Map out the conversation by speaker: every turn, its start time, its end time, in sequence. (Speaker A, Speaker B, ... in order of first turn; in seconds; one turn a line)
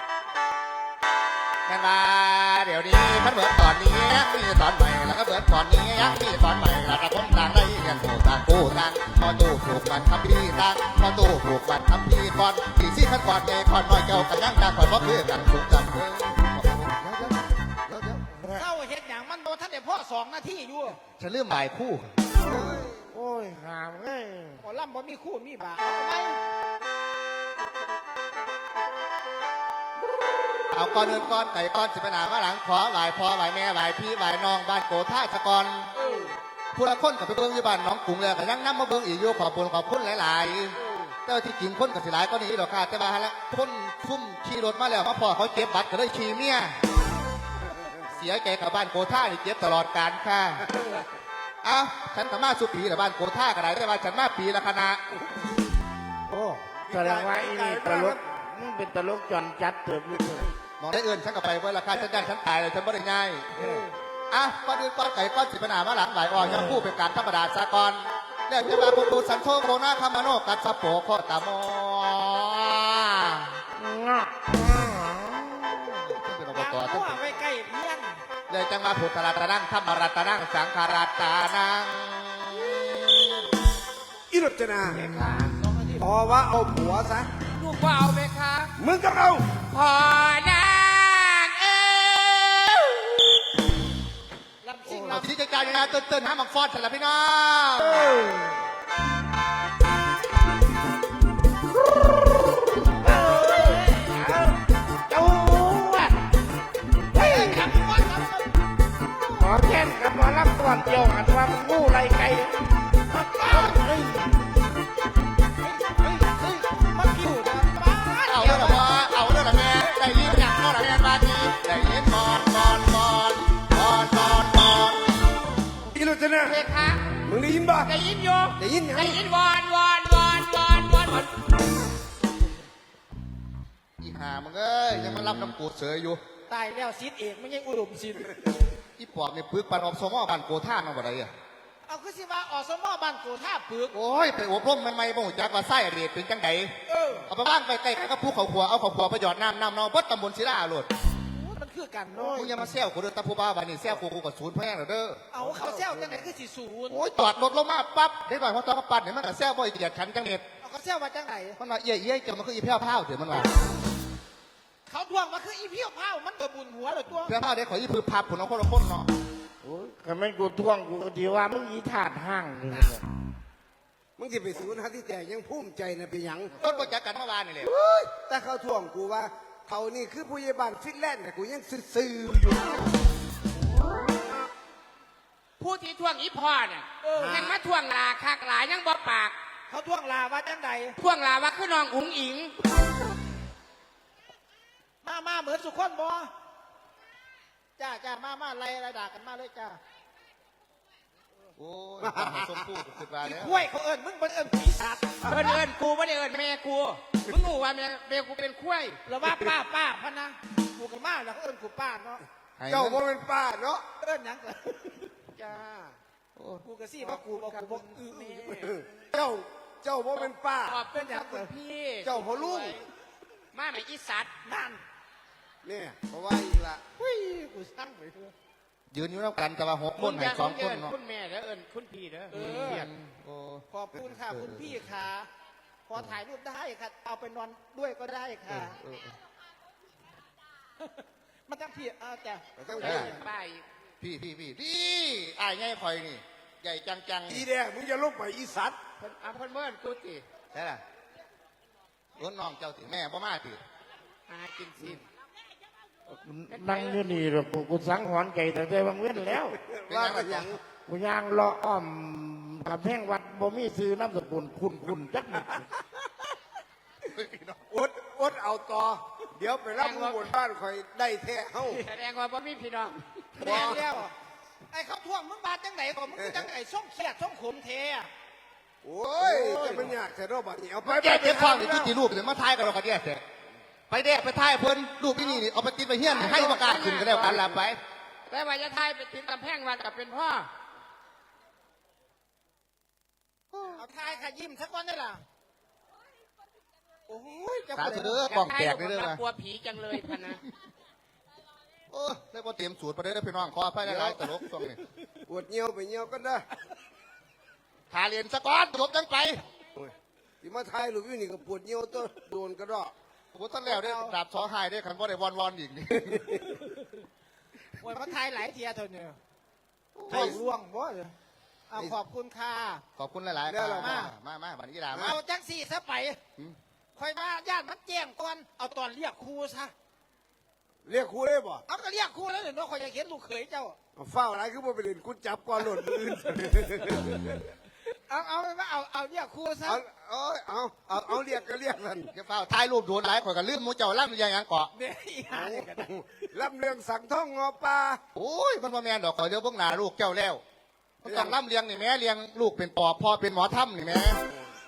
Speaker A: 1.7-18.3
Speaker B: 18.4-18.7
Speaker C: 18.5-21.0
Speaker A: 21.2-22.1
Speaker D: 22.3-23.1
Speaker B: 23.1-24.6
Speaker C: 24.6-26.4
Speaker A: 30.7-35.9
Speaker C: 35.9-36.4
Speaker D: 36.0-36.3
Speaker A: 36.7-46.8
Speaker D: 40.8-41.2
Speaker A: 48.1-50.7
Speaker D: 50.7-51.0
Speaker A: 51.6-55.0
Speaker D: 56.3-58.2
Speaker B: 56.4-60.5
Speaker A: 60.8-63.5
Speaker D: 63.6-63.9
Speaker A: 64.3-73.6
Speaker B: 66.4-66.8
Speaker B: 73.8-76.2
Speaker A: 76.1-77.2
Speaker C: 76.5-78.2
Speaker A: 78.5-83.5
Speaker D: 84.3-85.0
Speaker E: 84.9-85.5
Speaker C: 85.6-86.1
Speaker D: 86.0-87.3
Speaker E: 87.5-88.7
Speaker D: 88.8-89.5
Speaker E: 89.7-93.0
Speaker C: 94.6-95.9
Speaker A: 94.9-98.3
Speaker B: 103.0-104.5
Speaker C: 103.0-104.1
Speaker B: 105.1-106.3
Speaker B: 107.1-107.7
Speaker C: 107.1-108.5
Speaker B: 109.2-112.8
Speaker C: 113.1-113.8
Speaker B: 113.5-114.5
Speaker C: 115.6-118.9
Speaker A: 118.3-125.2
Speaker D: 125.9-126.6
Speaker E: 126.5-127.2
Speaker D: 127.2-127.9
Speaker E: 127.8-131.5
Speaker D: 128.6-129.2
Speaker A: 134.0-136.2
Speaker C: 136.5-138.3
Speaker A: 139.0-141.3
Speaker C: 141.9-143.9
Speaker A: 143.9-146.8
Speaker C: 146.9-147.3
Speaker A: 147.3-150.9
Speaker C: 151.3-152.4
Speaker B: 152.1-152.9
Speaker A: 152.3-155.2
Speaker C: 155.3-157.1
Speaker A: 156.9-160.4
Speaker C: 160.6-161.6
Speaker A: 161.6-163.6
Speaker C: 164.9-167.3
Speaker A: 167.3-169.1
Speaker B: 169.6-173.1
Speaker D: 174.2-176.7
Speaker A: 176.6-177.7
Speaker D: 177.6-182.8
Speaker E: 185.6-189.4
Speaker C: 187.0-187.6
Speaker C: 189.7-191.0
Speaker E: 191.0-192.6
Speaker C: 195.0-196.3
Speaker C: 197.8-199.8
Speaker A: 201.6-203.7
Speaker D: 202.0-202.8
Speaker C: 203.2-205.5
Speaker E: 205.3-209.0
Speaker C: 209.1-212.2
Speaker A: 212.6-213.0
Speaker D: 212.7-213.9
Speaker C: 214.0-215.1
Speaker E: 215.4-216.0
Speaker A: 216.4-216.6
Speaker C: 216.6-218.6
Speaker E: 217.0-218.9
Speaker D: 218.6-220.8
Speaker E: 220.2-222.8
Speaker C: 220.9-221.5
Speaker D: 222.0-222.8
Speaker E: 223.5-224.3
Speaker C: 224.4-224.8
Speaker D: 225.6-226.8
Speaker C: 227.0-228.3
Speaker A: 228.9-230.9
Speaker E: 230.0-232.9
Speaker C: 232.3-232.9
Speaker A: 232.3-234.8
Speaker C: 233.7-235.3
Speaker C: 235.9-238.8
Speaker A: 238.5-239.2
Speaker C: 240.8-243.2
Speaker D: 242.6-243.1
Speaker E: 242.8-243.7
Speaker A: 242.8-243.1
Speaker A: 244.0-247.5
Speaker D: 247.3-248.8
Speaker E: 249.0-250.2
Speaker A: 250.5-250.8
Speaker A: 252.2-253.6
Speaker E: 254.3-255.0
Speaker B: 256.1-259.6
Speaker E: 256.5-257.2
Speaker D: 259.6-260.6
Speaker A: 259.9-260.5
Speaker B: 260.9-265.7
Speaker A: 267.1-267.6
Speaker D: 267.7-271.8
Speaker E: 269.8-270.3
Speaker E: 271.7-273.6
Speaker C: 273.4-274.1
Speaker D: 273.4-273.9
Speaker A: 273.5-273.8
Speaker C: 274.7-278.1
Speaker D: 278.8-281.9
Speaker A: 279.2-279.9
Speaker A: 280.8-283.2
Speaker A: 283.9-287.8
Speaker E: 286.1-287.4
Speaker E: 288.3-290.5
Speaker A: 293.5-293.8
Speaker C: 293.8-295.2
Speaker C: 297.1-298.3
Speaker A: 297.7-299.2
Speaker E: 298.3-300.4
Speaker A: 301.9-304.8
Speaker D: 303.8-304.3
Speaker D: 305.3-306.5
Speaker A: 307.9-309.4
Speaker D: 309.8-312.9
Speaker A: 313.3-316.4
Speaker C: 313.6-314.1
Speaker C: 317.8-319.2
Speaker A: 319.9-320.4
Speaker C: 320.1-321.1
Speaker D: 320.1-320.4
Speaker C: 321.7-322.8
Speaker A: 323.0-325.2
Speaker D: 323.5-324.1
Speaker C: 323.8-324.1
Speaker C: 325.0-326.2
Speaker C: 327.0-329.7
Speaker D: 330.9-331.6
Speaker C: 331.7-333.8
Speaker D: 334.0-337.4
Speaker C: 338.1-339.8
Speaker D: 339.7-342.1
Speaker A: 342.1-344.7
Speaker C: 344.8-345.9
Speaker D: 345.3-348.0
Speaker A: 348.1-350.4
Speaker A: 351.0-354.2
Speaker D: 351.1-351.4
Speaker D: 354.3-354.6